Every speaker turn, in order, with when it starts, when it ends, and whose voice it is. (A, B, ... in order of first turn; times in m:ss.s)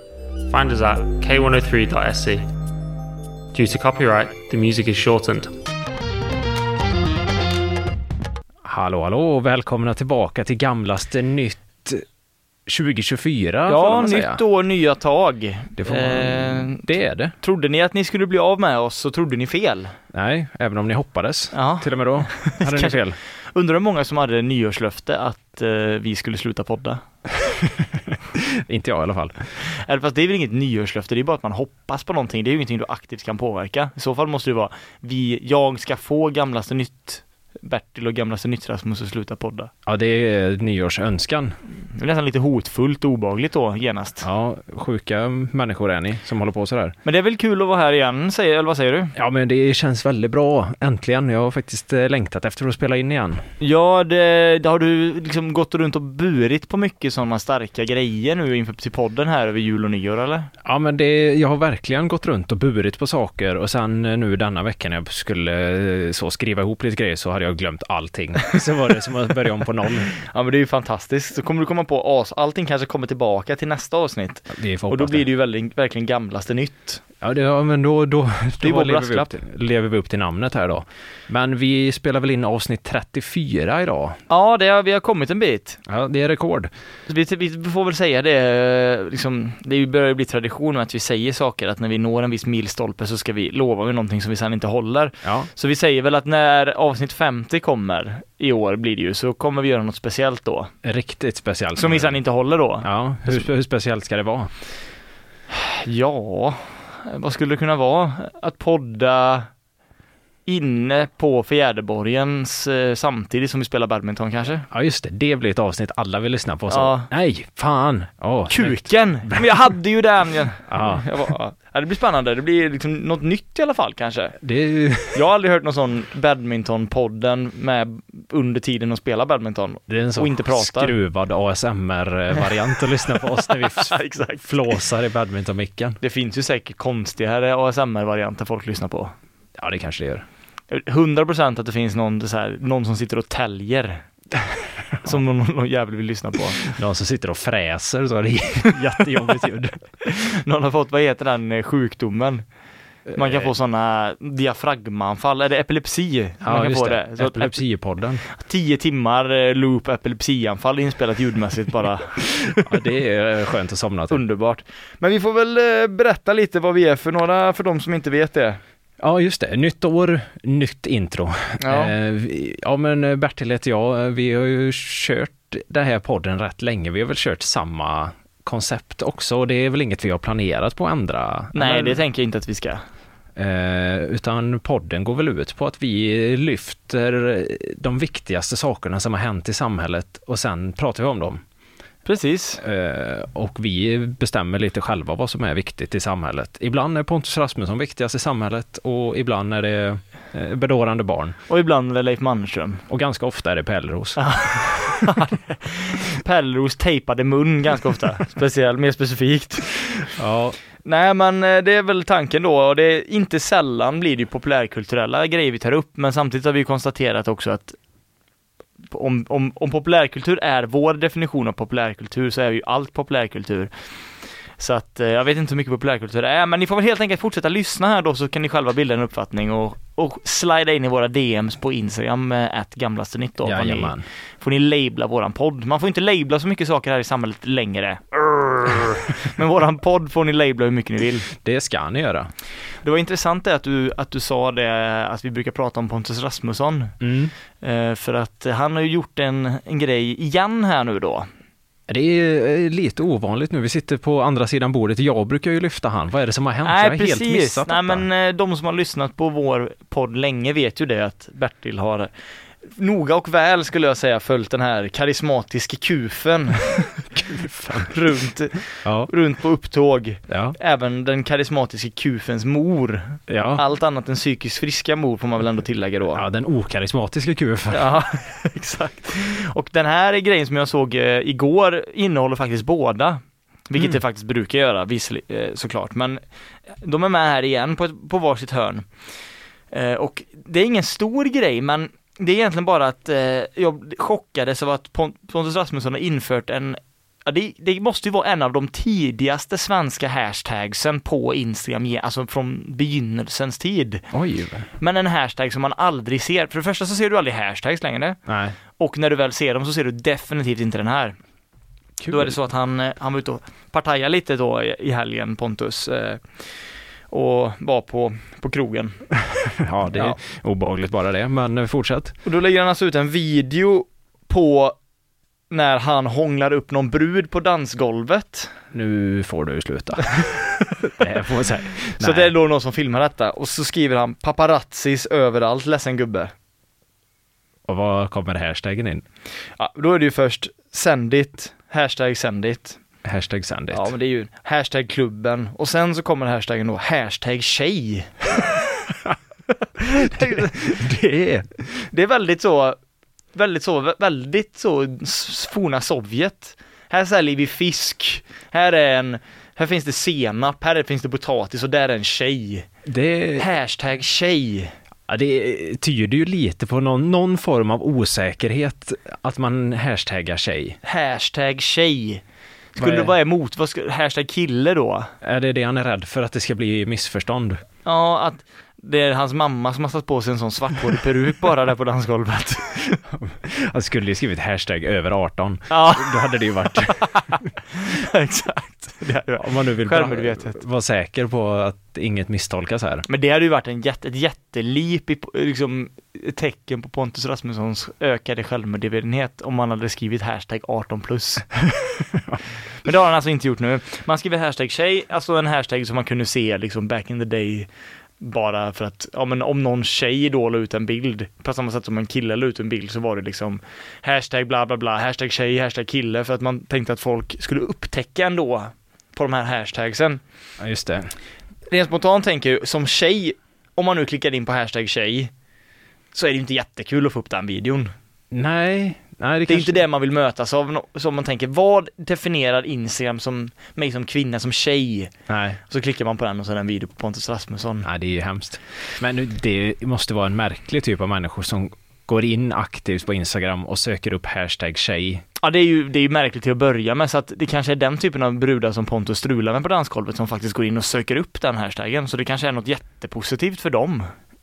0:00.5-0:02.4 A
0:03.5-0:05.5 A
0:08.6-0:12.0 B
0:12.6-0:14.4 B
0:13.7-0:19.9 C
0:15.8-0:17.3 B
0:20.1-0:23.2 B
0:21.5-0:27.0 C
0:27.4-0:29.5 B
0:29.6-0:39.7 C
0:39.8-0:41.6 B
0:41.9-0:44.2 C
0:44.2-0:47.0 B
0:47.0-0:49.1 C
0:49.1-0:53.4 B
0:53.6-1:00.5 C
1:00.6-1:10.1 B
1:10.2-1:17.0 C
1:14.5-1:15.2 B
1:17.2-1:24.2 B
1:18.6-1:19.3 C
1:24.3-1:25.8 C
1:25.8-1:26.7 B
1:27.1-1:40.7 C
1:35.2-1:35.5 B
1:40.8-1:42.2 B
1:41.8-1:43.4 C
1:42.8-1:44.5 B
1:45.5-1:49.5 C
1:50.4-1:54.7 C
1:54.7-1:59.6 B
1:56.7-1:57.1 C
1:58.5-2:04.4 C
2:00.7-2:01.1 B
2:04.4-2:05.2 B
2:05.1-2:10.9 C
2:09.9-2:16.0 B
2:12.4-2:14.8 C
2:16.0-2:19.1 C
2:19.6-2:20.2 B
2:20.7-2:24.0 C
2:24.9-2:25.2 B
2:25.0-2:26.6 C
2:26.6-2:29.8 B
2:30.0-2:32.4 C
2:33.1-2:33.5 B
2:33.1-2:37.6 C
2:36.4-2:38.2 B
2:38.3-2:42.6 C
2:42.6-2:44.2 B
2:44.1-2:48.6 C
2:49.0-3:02.0 B
2:51.6-2:51.9 C
3:01.5-3:02.8 C
3:03.4-3:11.4 B
3:12.0-3:12.6 C
3:12.6-3:21.4 B
3:21.5-3:22.8 C
3:22.9-3:24.8 B
3:24.2-3:30.1 C
3:30.2-3:30.6 B
3:30.8-3:37.8 C
3:38.9-3:43.7 C
3:44.6-4:01.3 C
3:53.4-3:54.0 B
4:01.3-4:02.3 B
4:02.8-4:06.9 C
4:07.0-4:07.3 B
4:07.6-4:11.3 C
4:11.9-4:18.0 B
4:16.6-4:22.1 C
4:22.7-4:27.0 C
4:27.1-4:27.9 B
4:27.8-4:36.2 C
4:28.8-4:29.1 B
4:30.3-4:30.6 B
4:33.3-4:33.6 B
4:36.1-4:37.9 B
4:37.7-4:46.2 C
4:46.8-4:48.8 C
4:49.7-5:04.0 C
5:04.1-5:04.7 B
5:04.8-5:08.2 C
5:08.3-5:08.6 B
5:08.8-5:11.2 C
5:12.0-5:12.4 B
5:12.1-5:16.2 C
5:17.1-5:19.0 C
5:19.2-5:22.1 B
5:19.9-5:20.2 C
5:22.2-5:24.8 C
5:25.5-5:28.5 C
5:28.7-5:32.3 B
5:32.0-5:36.3 C
5:37.7-5:39.0 B
5:39.6-5:42.8 C
5:43.0-5:43.9 B
5:43.7-5:48.2 C
5:49.8-5:51.9 B
5:49.8-5:50.6 C
5:51.9-5:52.8 C
5:53.3-6:02.7 C
6:02.8-6:03.5 B
6:03.4-6:04.7 C
6:05.1-6:10.8 B
6:10.8-6:12.2 C
6:12.8-6:15.1 C
6:12.8-6:13.1 B
6:15.2-6:17.6 B
6:17.8-6:23.0 C
6:23.1-6:27.3 B
6:25.7-6:30.6 C
6:29.4-6:33.0 B
6:33.1-6:41.5 C
6:42.1-6:42.4 B
6:42.8-6:47.7 C
6:48.2-7:00.2 C
7:00.6-7:01.1 B
7:01.7-7:05.3 C
7:06.1-7:07.9 C
7:08.3-7:09.8 B
7:09.5-7:15.1 C
7:15.3-7:15.6 B
7:15.7-7:17.9 C
7:17.8-7:25.2 B
7:25.4-7:34.1 C